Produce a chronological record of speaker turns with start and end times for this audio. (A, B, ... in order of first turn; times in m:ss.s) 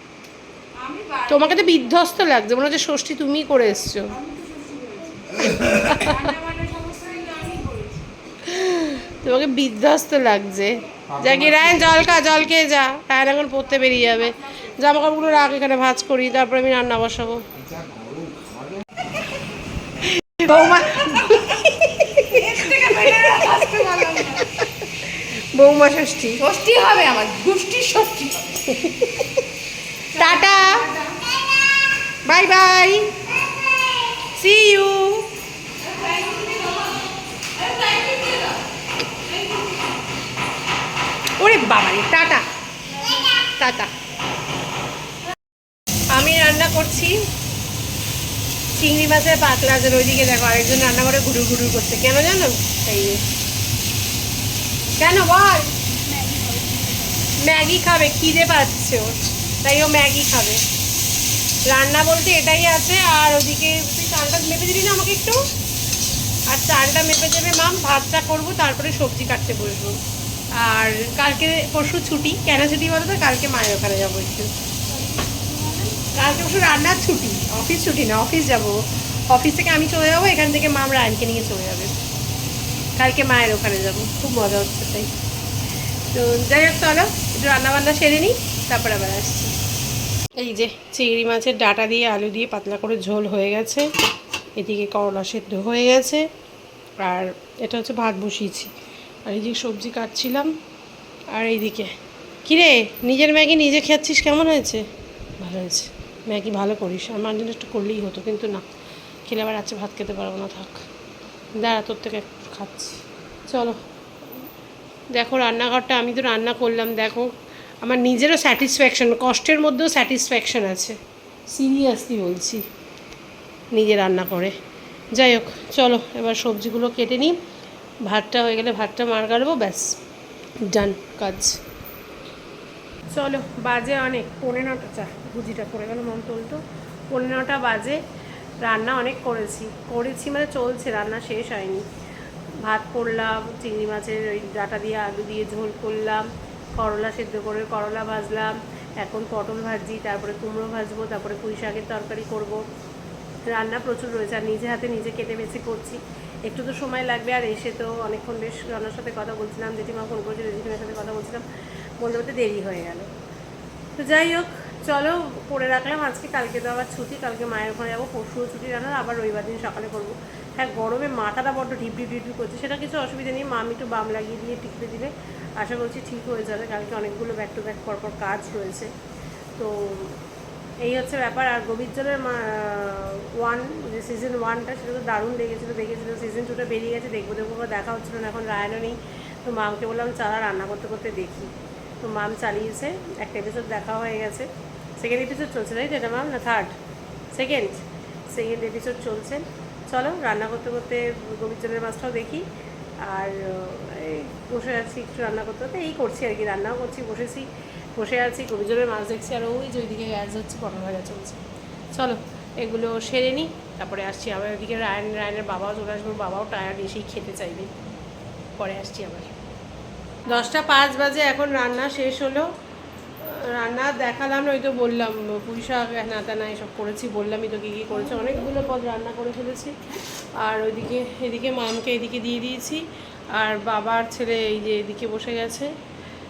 0:00.7-0:02.1 A
0:01.3-0:04.2 B
0:04.1-0:08.1 A
0:05.6-0:06.3 B
0:08.4-0:17.4 B
0:11.1-0:12.5 C
0:17.5-0:18.8 C
0:20.2-0:26.4 B
0:21.0-0:21.4 A
0:22.2-0:24.5 A
0:26.4-0:28.7 A
0:28.7-0:29.3 B
0:30.1-0:30.9 B
0:30.1-0:31.2 A
0:32.2-0:33.1 B
0:34.3-0:35.3 B
0:35.8-0:38.6 A
0:39.2-0:39.8 A
0:41.4-0:42.4 B
0:43.4-0:43.9 B
0:46.1-0:47.2 B
0:48.7-0:53.2 B
0:55.0-0:55.7 B
0:56.0-0:57.2 A
0:57.4-1:00.6 B
1:01.7-1:05.4 B
1:06.5-1:10.0 B
1:10.6-1:14.5 B
1:14.9-1:15.9 A
1:16.1-1:18.8 B
1:19.3-1:21.9 B
1:23.0-1:25.1 B
1:26.1-1:29.5 B
1:30.4-1:33.9 B
1:34.6-1:36.2 B
1:37.0-1:38.7 B
1:39.2-1:40.5 B
1:41.3-1:41.9 B
1:42.4-1:44.8 B
1:45.4-1:48.6 B
1:49.3-1:50.8 B
1:51.6-1:53.8 B
1:55.1-1:57.3 B
1:57.8-2:01.0 B
2:01.5-2:02.6 B
2:03.7-2:04.5 B
2:05.1-2:07.3 B
2:08.1-2:09.9 B
2:10.7-2:11.6 B
2:13.1-2:18.0 B
2:18.6-2:21.8 B
2:22.6-2:32.6 B
2:33.5-2:41.4 B
2:42.0-2:43.1 B
2:44.0-2:58.9 B
2:59.6-3:00.2 B
3:00.8-3:14.5 B
3:15.0-3:16.7 B
3:17.3-3:22.4 B
3:23.0-3:31.4 B
3:31.9-3:37.7 B
3:38.6-3:39.3 B
3:40.2-3:42.5 B
3:43.2-3:49.7 B
3:47.9-3:48.5 A
3:50.4-3:55.7 B